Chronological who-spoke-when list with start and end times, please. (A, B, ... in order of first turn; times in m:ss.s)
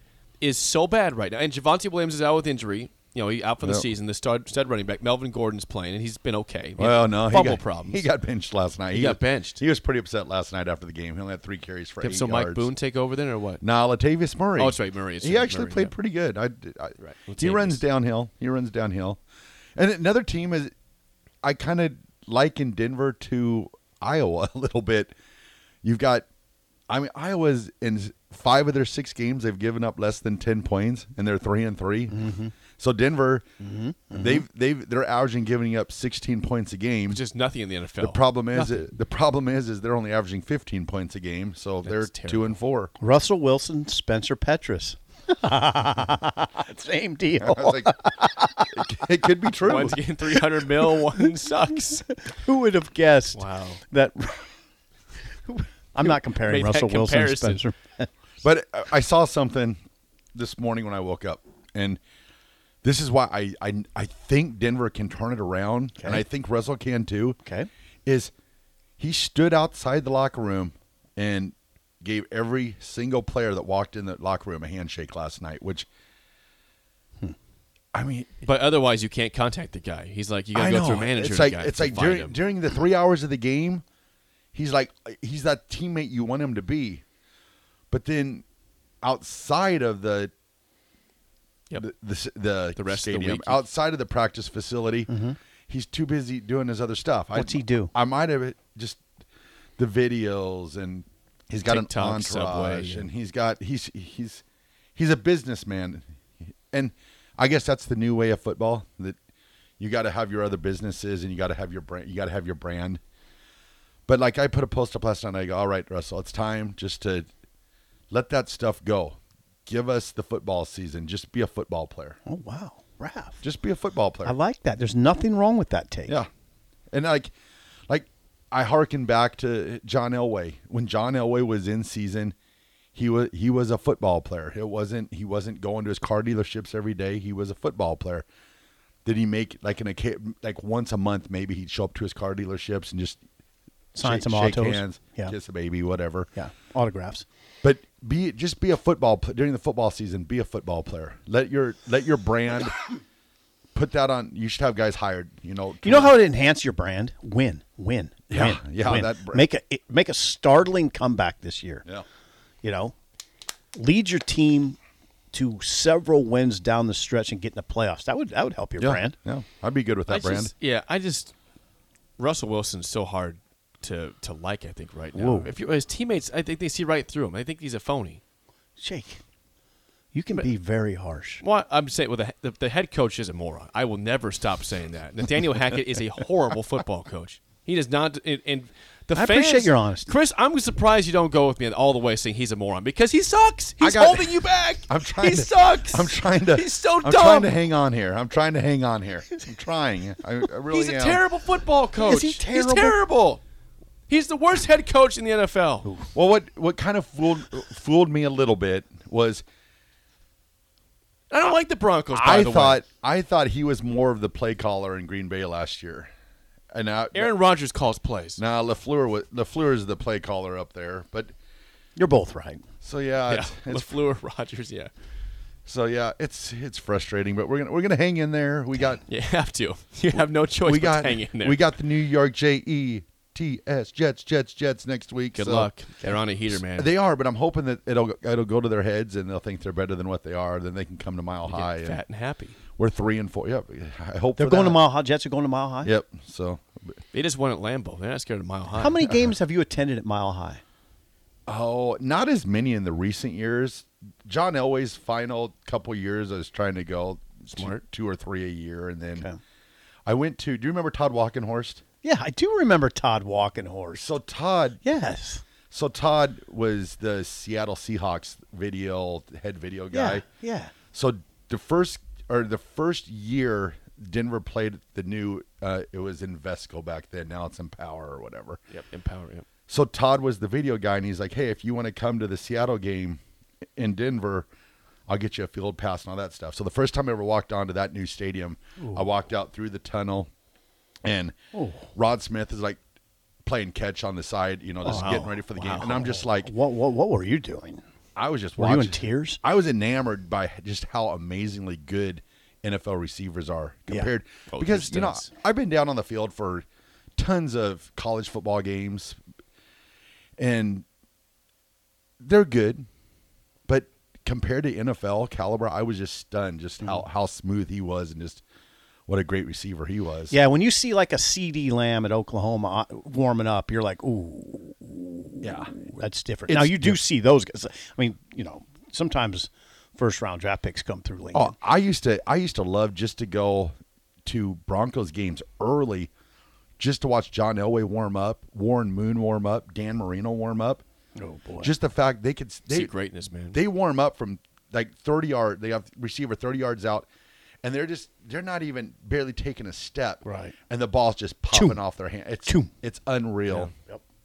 0:00.4-0:08.1 A
0:03.6-0:03.9 B
0:06.8-0:12.7 B
0:08.9-0:09.6 A
0:12.0-0:13.6 A
0:13.6-0:19.2 B
0:14.6-0:15.9 A
0:17.0-0:17.8 A
0:19.8-0:20.7 B
0:21.4-0:25.1 B
0:25.8-0:26.3 B
0:26.9-0:33.5 B
0:32.1-0:32.5 C
0:33.6-0:34.4 C
0:34.1-0:37.2 B
0:37.1-0:38.8 A
0:38.0-0:42.9 B
0:41.8-0:42.6 A
0:43.0-0:50.4 C
0:47.4-0:47.9 B
0:48.7-0:50.0 B
0:49.7-0:52.2 A
0:52.2-0:54.5 C
0:53.4-0:53.8 A
0:55.5-0:58.1 C
0:56.0-0:57.6 A
0:58.4-0:59.8 B
1:00.4-1:02.0 B
1:02.8-1:07.4 B
1:08.1-1:08.3 B
1:09.0-1:15.9 B
1:17.9-1:18.3 B
1:18.4-1:22.4 A
1:20.6-1:23.8 B
1:24.5-1:27.0 B
1:27.9-1:28.4 B
1:29.0-1:30.3 B
1:31.8-1:35.1 B
1:32.8-1:33.6 A
1:35.1-1:35.4 C
1:35.7-1:39.0 B
1:37.3-1:37.9 C
1:39.8-1:44.4 B
1:41.7-1:43.1 A
1:45.0-1:46.0 B
1:46.7-1:49.2 B
1:49.8-1:53.0 B
1:54.1-1:57.3 B
1:58.1-2:02.2 B
2:02.3-2:03.4 C
2:03.4-2:04.4 B
2:04.2-2:06.2 C
2:06.9-2:07.3 B
2:07.9-2:12.4 B
2:13.0-2:18.3 B
2:19.0-2:23.2 B
2:24.0-2:26.3 B
2:24.0-2:25.4 C
2:26.3-2:27.3 C
2:27.6-2:32.8 B
2:33.8-2:36.2 B
2:35.8-2:41.9 C
2:38.3-2:39.5 B
2:42.6-2:42.9 C
2:43.7-2:44.8 C
2:45.3-2:49.2 C
2:48.8-2:50.5 B
2:50.1-2:51.3 A
2:52.2-2:58.2 A
2:55.1-2:55.5 C
2:58.8-2:59.2 C
3:00.1-3:01.4 C
3:01.4-3:17.5 A
3:09.1-3:10.1 C
3:13.8-3:21.2 B
3:20.7-3:23.4 A
3:22.0-3:23.0 C
3:24.1-3:25.9 A
3:26.1-3:29.4 B
3:31.3-3:32.8 A
3:32.1-3:36.1 B
3:36.7-3:37.3 B
3:37.1-3:38.4 A
3:38.4-3:41.3 B
3:42.0-3:42.6 C
3:42.8-3:44.0 B
3:43.3-3:44.9 A
3:45.7-3:49.0 B
3:49.1-3:51.6 A
3:50.6-3:55.7 B
3:55.4-3:56.9 A
3:56.5-4:02.0 B
4:01.5-4:02.6 A
4:02.8-4:04.8 B
4:04.4-4:06.0 C
4:05.8-4:06.8 B
4:07.1-4:09.0 A
4:08.7-4:10.6 C
4:09.0-4:09.3 B
4:11.5-4:19.3 B
4:17.5-4:17.8 A
4:20.1-4:21.8 B
4:22.0-4:24.1 C
4:23.9-4:24.8 B
4:24.8-4:25.4 C
4:25.7-4:30.3 B
4:29.9-4:30.7 C
4:30.9-4:38.6 B
4:38.7-4:39.4 A
4:39.7-4:43.2 B
4:43.8-4:44.5 B
4:45.1-4:50.3 B
4:48.8-4:49.0 C
4:51.0-4:51.4 B
4:51.5-4:51.9 C
4:51.9-4:52.8 B
4:53.4-4:56.5 B
4:54.8-4:57.8 C
4:54.9-4:55.8 A
4:58.2-5:06.7 B
4:58.6-4:59.4 C
5:04.5-5:05.3 A
5:07.2-5:09.2 B
5:10.4-5:10.8 B
5:12.2-5:12.9 B
5:13.7-5:18.4 B
5:19.1-5:20.4 B
5:20.3-5:31.5 C
5:25.4-5:27.0 B
5:31.3-5:33.7 B
5:34.2-5:36.1 B
5:36.8-5:40.8 B
5:41.2-5:41.7 C
5:41.6-5:42.9 B
5:42.7-5:43.6 A
5:43.5-5:47.1 B
5:47.6-5:53.7 B
5:50.2-5:50.6 C
5:51.5-5:51.8 C
5:52.5-5:52.7 C